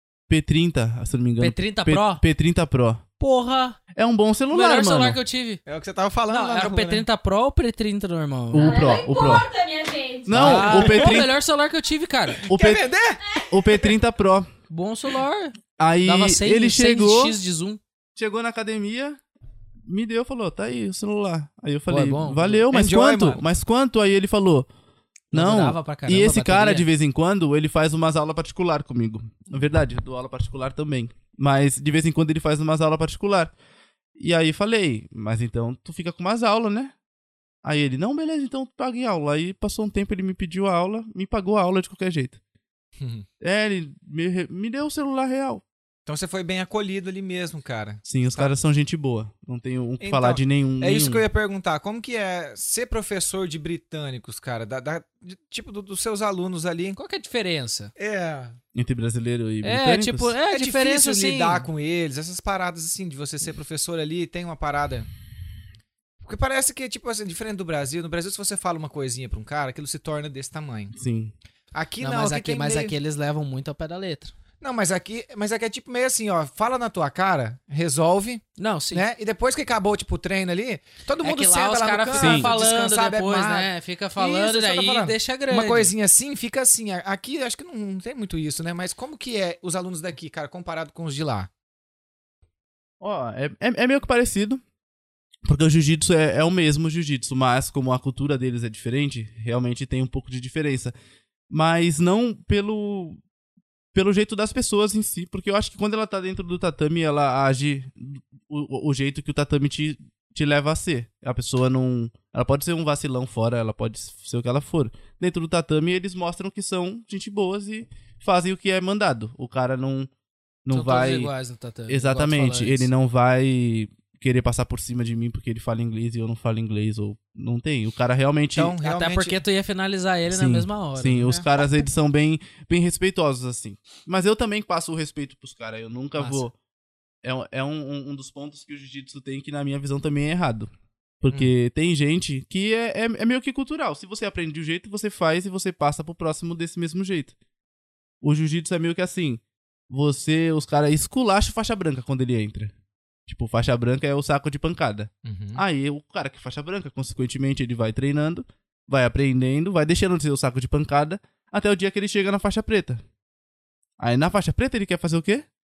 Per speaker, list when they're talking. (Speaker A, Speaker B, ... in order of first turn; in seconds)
Speaker A: 0.3-3.0, 3.9-5.2, 8.5-9.5, 10.2-11.3, 12.5-14.5, 15.8-17.4, 18.1-19.2, 19.9-24.7, 25.3-33.5, 34.2-36.9, 37.6-42.4, 43.4-45.6, 48.0-51.2, 58.7-60.3, 70.9-71.3, 82.1-82.5, 93.0-94.6, 95.4-100.9, 101.5-103.2, 103.9-120.1, 120.6-121.3, 121.9-128.7, 130.3-136.5, 137.2-140.7, 141.2-147.3, 148.2-152.7, 153.3-163.0, 164.0-165.4
Speaker B: 1.4-2.2, 3.2-3.8, 4.5-5.6, 6.3-8.8, 10.3-12.4, 14.7-17.8, 21.9-22.6, 25.3-26.9, 57.0-57.9, 59.6-61.6, 72.0-74.3, 78.6-79.0, 81.2-85.9, 120.7-122.9, 128.8-131.3
Speaker C: 5.7-7.0, 10.7-11.2, 12.3-13.2, 22.7-23.4, 43.0-43.2, 46.0-48.5, 50.0-57.0, 58.0-58.6, 60.5-65.1, 66.2-70.9, 71.7-73.0, 74.6-91.5, 128.5-129.4, 155.2-155.6
Speaker D: 8.6-10.6